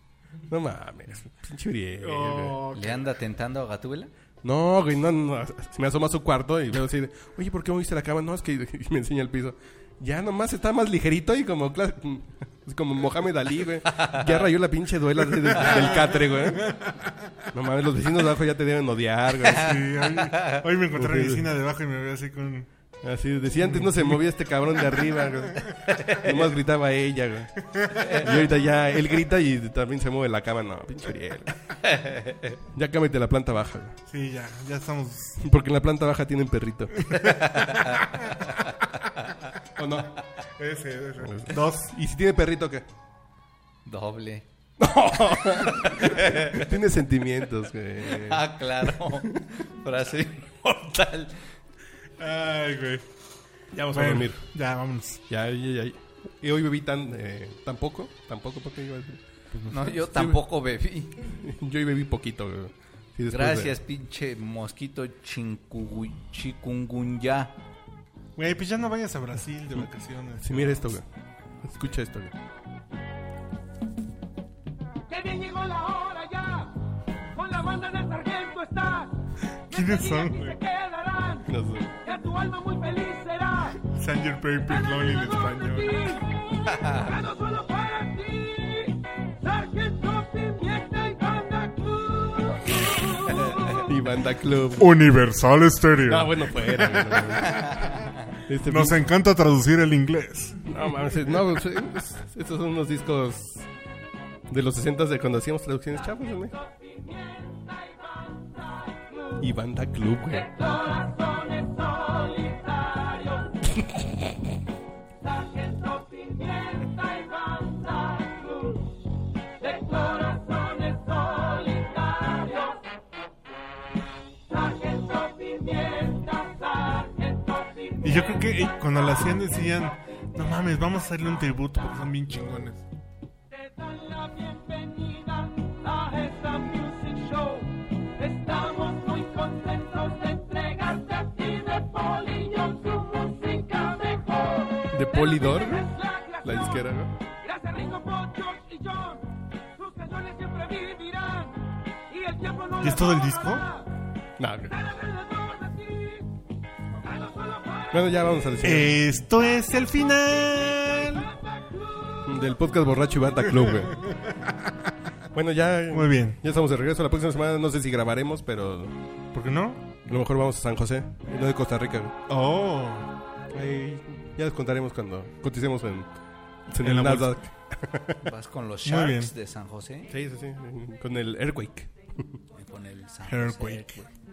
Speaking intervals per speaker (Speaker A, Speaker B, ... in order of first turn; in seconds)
Speaker A: 0.5-2.6, 4.4-16.8, 17.5-19.9, 20.9-21.5, 23.0-31.6, 32.7-34.0, 35.4-37.3, 39.8-40.2, 41.2-42.9, 44.8-49.5, 53.7-54.4, 55.3-60.4, 61.3-63.8, 70.4-71.0, 71.6-72.3, 81.5-81.9, 93.8-94.9, 96.0-97.7, 98.5-99.0, 100.7-103.7, 104.5-106.5, 109.4-110.5, 144.9-147.1, 154.4-154.7, 157.9-158.9, 162.2-164.0, 165.3-168.9, 170.1-172.1, 173.5-176.1, 176.7-178.2, 180.1-182.4
Speaker B: 2.0-3.0, 15.4-17.1, 19.4-22.7, 23.6-24.2, 27.6-28.4, 34.1-35.4, 37.0-38.5, 40.5-41.9, 52.2-53.0, 53.9-55.2, 68.4-70.9, 79.7-80.6, 83.8-86.2, 94.8-97.7, 98.6-100.7, 128.0-132.8, 152.8-153.7, 158.6-161.3, 163.4-164.8, 165.9-166.4, 169.3-170.0, 172.3-173.1, 176.8-177.3, 178.8-179.3, 183.2-184.0
Speaker C: 2.7-4.1, 13.9-14.5, 20.2-20.6, 25.9-26.2, 28.0-28.2, 31.8-32.6, 43.9-44.4, 45.3-46.7, 48.0-51.4, 59.7-61.1, 63.3-67.5, 86.7-87.1, 178.2-180.1, 182.6-184.0
Speaker D: 75.1-83.8, 84.8-93.9, 106.4-109.5, 110.3-113.9, 115.2-119.0, 119.6-122.8, 124.5-128.5, 133.5-153.8, 154.7-156.4, 157.0-158.3, 160.7-162.6